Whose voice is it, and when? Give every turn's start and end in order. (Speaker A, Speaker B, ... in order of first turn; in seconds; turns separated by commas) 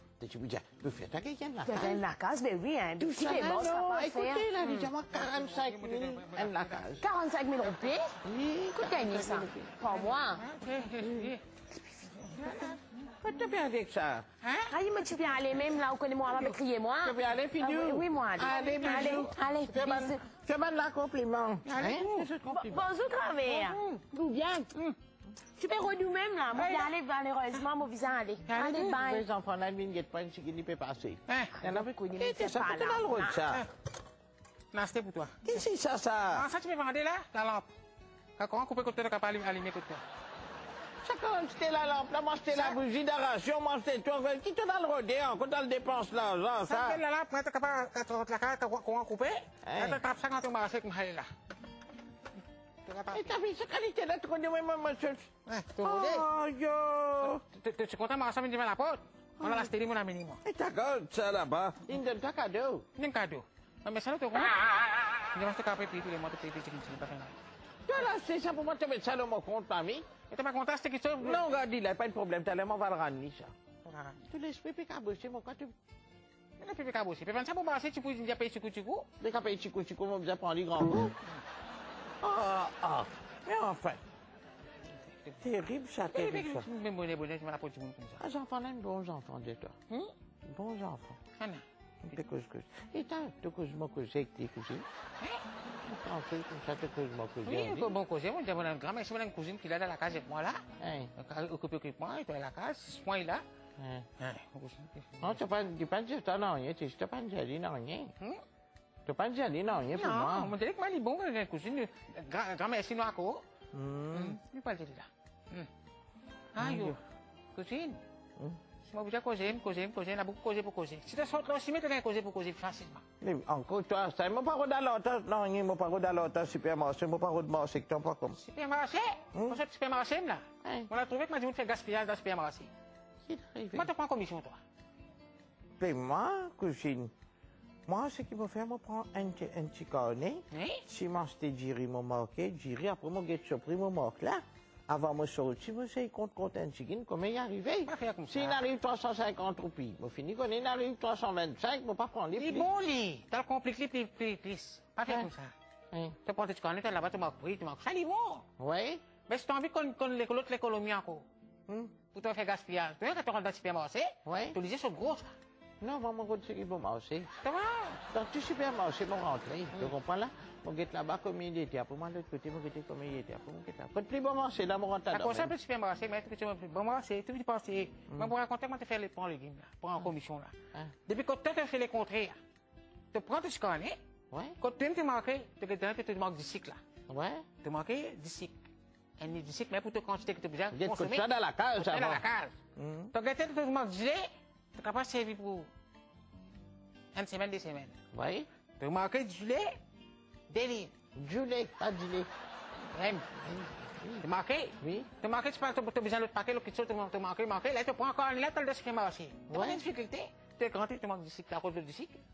Speaker A: 0.2-2.0, Speaker B: 1.6-4.5, Speaker A: 3.0-7.0, Speaker C: 4.6-7.0, Speaker B: 7.0-8.1, Speaker C: 7.6-8.0, Speaker A: 8.2-9.8, Speaker B: 8.7-10.4, Speaker C: 9.9-11.4, Speaker A: 11.0-11.3, Speaker C: 12.1-13.1, Speaker A: 12.3-14.3, Speaker C: 14.4-14.8, Speaker B: 14.7-20.2, Speaker A: 17.0-22.9, Speaker C: 18.4-19.3, Speaker C: 21.6-22.3, Speaker B: 22.5-24.7, Speaker C: 23.5-24.1, Speaker B: 25.6-29.3, Speaker C: 26.5-26.9, Speaker C: 28.4-29.0, Speaker A: 28.9-33.6, Speaker C: 31.3-31.6, Speaker B: 31.6-33.5, Speaker C: 34.7-35.6, Speaker A: 35.4-36.5, Speaker C: 36.3-37.7, Speaker C: 38.4-40.0, Speaker A: 41.0-47.0, Speaker C: 42.5-42.8, Speaker C: 46.6-51.3, Speaker A: 49.6-50.0, Speaker C: 52.9-53.4, Speaker A: 53.1-57.4, Speaker C: 55.5-56.3, Speaker C: 57.2-60.4, Speaker A: 59.4-59.7, Speaker A: 60.4-62.9, Speaker C: 63.0-67.3, Speaker A: 67.9-70.1, Speaker C: 70.3-71.5, Speaker A: 71.2-73.5, Speaker C: 73.8-74.2, Speaker A: 74.2-75.7, Speaker C: 76.6-79.1, Speaker A: 79.2-81.2, Speaker A: 82.2-84.0, Speaker C: 85.0-85.4, Speaker A: 85.4-86.7, Speaker C: 86.1-88.2, Speaker A: 88.2-89.8, Speaker A: 90.5-91.2, Speaker C: 91.4-91.7, Speaker A: 92.0-94.9, Speaker A: 95.8-97.9, Speaker C: 97.5-100.6, Speaker A: 100.8-101.1, Speaker C: 101.2-103.5, Speaker A: 103.8-104.1, Speaker C: 104.2-105.4, Speaker A: 105.2-108.1, Speaker A: 109.1-110.6, Speaker C: 109.9-113.4, Speaker A: 113.7-114.4, Speaker C: 114.1-115.7, Speaker C: 116.5-117.0, Speaker A: 116.6-117.0, Speaker C: 117.5-118.0, Speaker C: 118.9-123.0, Speaker A: 123.2-128.4, Speaker C: 128.4-132.7, Speaker A: 129.3-129.6, Speaker A: 130.6-130.9, Speaker A: 133.3-133.9, Speaker C: 133.7-134.6, Speaker A: 135.8-137.1, Speaker A: 137.9-152.7, Speaker C: 140.5-140.8, Speaker C: 147.9-148.6, Speaker C: 152.4-155.5, Speaker A: 155.1-155.3, Speaker A: 155.9-156.2, Speaker C: 156.2-158.5, Speaker A: 158.6-159.0, Speaker C: 159.3-161.2, Speaker A: 161.7-161.9, Speaker C: 162.1-165.3, Speaker A: 164.2-164.6, Speaker A: 165.8-167.3, Speaker C: 167.4-168.0, Speaker A: 168.0-175.5, Speaker C: 175.1-182.4, Speaker A: 178.1-178.3, Speaker C: 183.1-184.0, Speaker A: 184.3-184.6, Speaker C: 184.6-186.8, Speaker A: 187.1-187.5, Speaker C: 187.6-188.6, Speaker C: 189.2-192.6, Speaker A: 190.7-192.2, Speaker A: 192.8-193.1, Speaker C: 193.1-195.7, Speaker C: 197.1-198.0, Speaker A: 198.1-198.5, Speaker C: 198.8-199.8, Speaker C: 200.5-200.9, Speaker A: 201.2-202.3, Speaker C: 202.9-203.3, Speaker A: 203.3-204.3, Speaker C: 204.2-212.2, Speaker A: 204.8-205.1, Speaker A: 209.5-209.8